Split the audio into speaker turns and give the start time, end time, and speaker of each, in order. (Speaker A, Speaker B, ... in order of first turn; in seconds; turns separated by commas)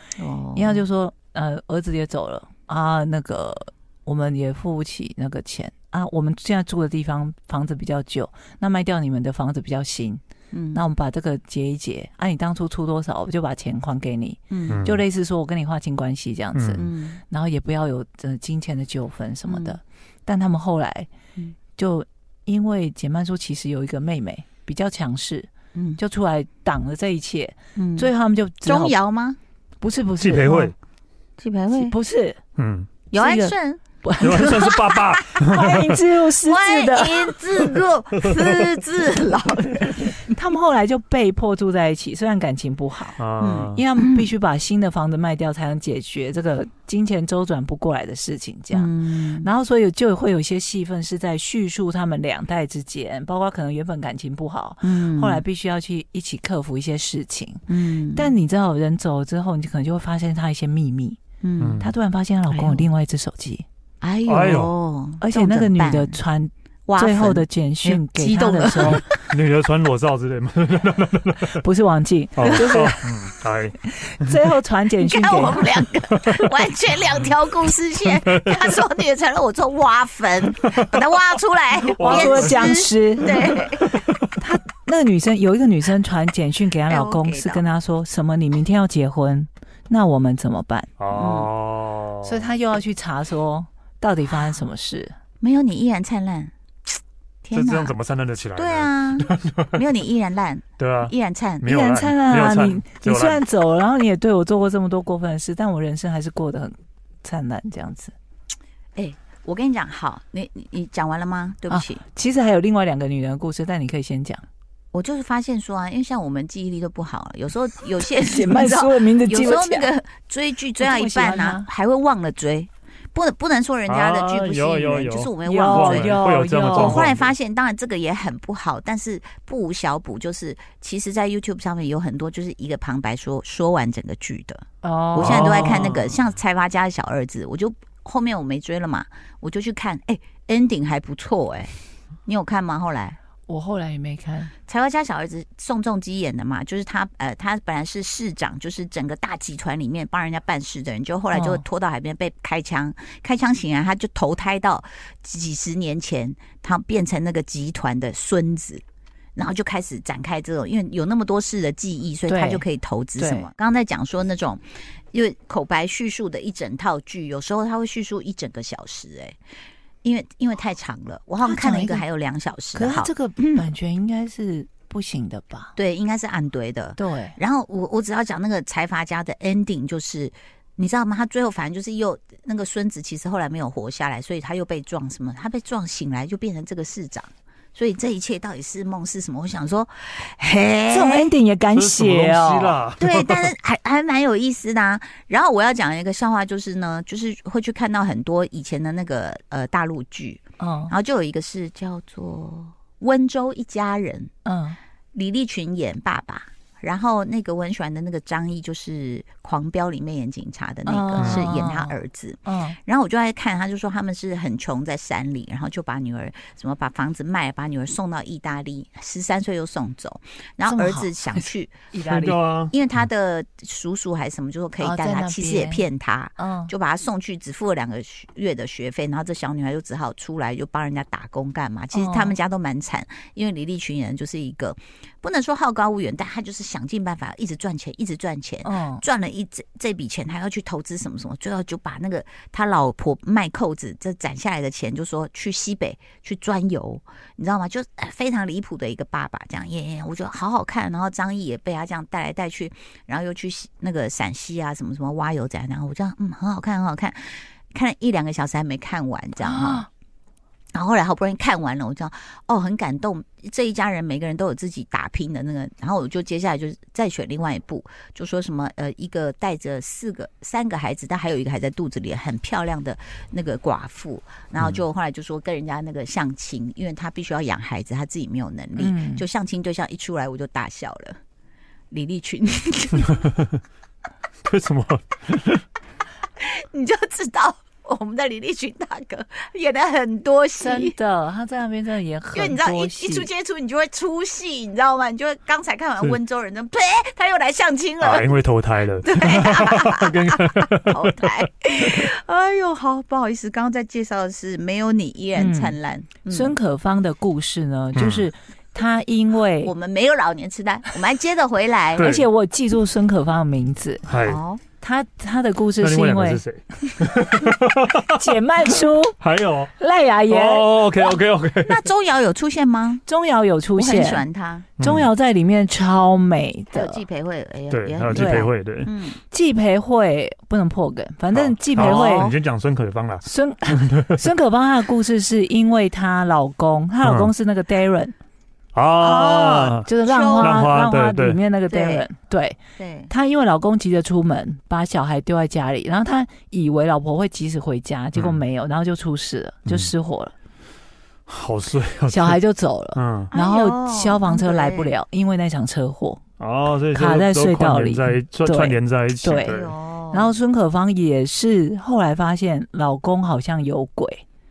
Speaker A: 0.2-0.8, Speaker B: 0.6-10.2, Speaker A: 10.5-10.8, Speaker B: 10.7-21.1, Speaker A: 14.5-14.8, Speaker C: 14.7-15.0, Speaker C: 16.6-16.8, Speaker A: 16.8-17.2, Speaker A: 19.5-19.8, Speaker B: 21.8-28.9, Speaker A: 25.8-26.0, Speaker A: 27.8-28.1, Speaker A: 28.6-29.4, Speaker B: 29.8-30.7, Speaker C: 30.2-30.7, Speaker A: 31.4-31.9, Speaker B: 31.7-32.4, Speaker C: 32.6-32.9, Speaker A: 33.1-33.8, Speaker B: 33.1-37.4, Speaker C: 34.2-36.0, Speaker A: 36.4-40.2, Speaker C: 38.2-38.7, Speaker B: 40.2-43.2, Speaker C: 43.2-43.8, Speaker A: 43.4-44.3, Speaker B: 43.7-61.2, Speaker A: 48.7-49.5, Speaker A: 54.8-55.4, Speaker A: 57.7-58.3, Speaker A: 61.4-61.8, Speaker C: 61.6-61.9, Speaker B: 61.8-63.7, Speaker A: 62.5-62.9, Speaker A: 64.0-66.2, Speaker C: 64.3-64.7, Speaker B: 65.2-69.1, Speaker A: 66.9-69.2, Speaker C: 69.1-71.6, Speaker B: 71.6-73.3, Speaker C: 72.4-74.4, Speaker A: 72.4-72.8, Speaker B: 74.0-75.7, Speaker A: 75.0-84.0, Speaker C: 76.1-76.5, Speaker C: 78.1-78.8, Speaker B: 81.9-83.5, Speaker C: 82.0-84.3, Speaker B: 84.4-90.9, Speaker A: 86.9-87.6, Speaker C: 91.0-92.5, Speaker A: 91.1-91.5, Speaker B: 92.2-95.2, Speaker A: 95.4-96.5, Speaker A: 97.4-97.9, Speaker C: 97.5-99.8, Speaker A: 98.6-101.7, Speaker C: 100.8-103.4, Speaker B: 101.7-108.1, Speaker A: 109.0-112.0, Speaker B: 111.7-114.5, Speaker A: 114.9-134.6, Speaker B: 118.2-119.9, Speaker B: 120.8-121.7, Speaker C: 123.9-127.3, Speaker B: 125.4-127.1, Speaker B: 134.8-135.8, Speaker C: 135.2-136.2, Speaker A: 135.2-141.7, Speaker A: 142.3-143.2, Speaker B: 143.5-144.5, Speaker A: 144.7-158.8, Speaker B: 151.3-151.6, Speaker A: 159.4-169.4, Speaker B: 162.3-162.7, Speaker B: 163.2-163.5, Speaker A: 170.0-173.7, Speaker B: 171.4-172.1, Speaker B: 172.7-175.8, Speaker A: 175.8-191.3, Speaker B: 177.0-177.4, Speaker B: 190.9-192.8, Speaker C: 191.7-193.5, Speaker A: 193.0-204.3, Speaker B: 200.6-200.9, Speaker B: 204.4-204.8, Speaker A: 205.1-221.8, Speaker B: 210.9-211.9, Speaker C: 211.2-211.5, Speaker B: 212.5-212.8, Speaker B: 220.7-222.4, Speaker C: 222.1-222.7, Speaker A: 222.7-259.9, Speaker B: 224.8-225.9, Speaker B: 226.4-226.7, Speaker B: 231.9-232.4, Speaker B: 238.7-239.0, Speaker B: 259.4-259.9, Speaker A: 260.7-281.2, Speaker B: 278.8-279.2, Speaker A: 281.9-283.3, Speaker C: 284.4-285.6, Speaker A: 286.4-290.9, Speaker B: 290.6-293.3, Speaker A: 292.3-298.4, Speaker C: 298.0-301.3, Speaker A: 299.0-306.5, Speaker B: 305.4-305.8, Speaker B: 306.3-309.7, Speaker C: 308.0-308.2, Speaker A: 309.6-312.1, Speaker C: 312.0-312.2, Speaker B: 312.0-314.0, Speaker C: 314.1-314.4, Speaker A: 314.2-314.6, Speaker B: 314.8-316.4, Speaker C: 315.8-318.2, Speaker B: 318.1-319.2, Speaker C: 319.2-319.7, Speaker B: 319.8-320.8, Speaker C: 320.3-321.9, Speaker A: 321.6-323.0, Speaker B: 323.1-324.2, Speaker A: 323.8-324.7, Speaker C: 324.8-325.1, Speaker B: 324.8-327.0, Speaker A: 326.7-329.2, Speaker C: 327.7-328.9, Speaker B: 328.1-328.5, Speaker B: 329.3-332.3, Speaker C: 331.3-334.3, Speaker A: 331.8-332.4, Speaker B: 333.2-338.1, Speaker C: 337.0-337.3, Speaker C: 338.8-339.9, Speaker B: 339.0-350.3, Speaker A: 340.0-340.7, Speaker C: 340.4-341.4, Speaker A: 341.7-342.1, Speaker A: 342.8-343.1, Speaker C: 348.1-348.4, Speaker C: 349.7-349.9, Speaker C: 351.3-352.4, Speaker B: 352.1-356.2, Speaker C: 353.0-353.3, Speaker A: 353.3-354.9, Speaker C: 356.4-359.7, Speaker B: 356.9-359.6, Speaker A: 359.4-360.3, Speaker B: 360.1-364.2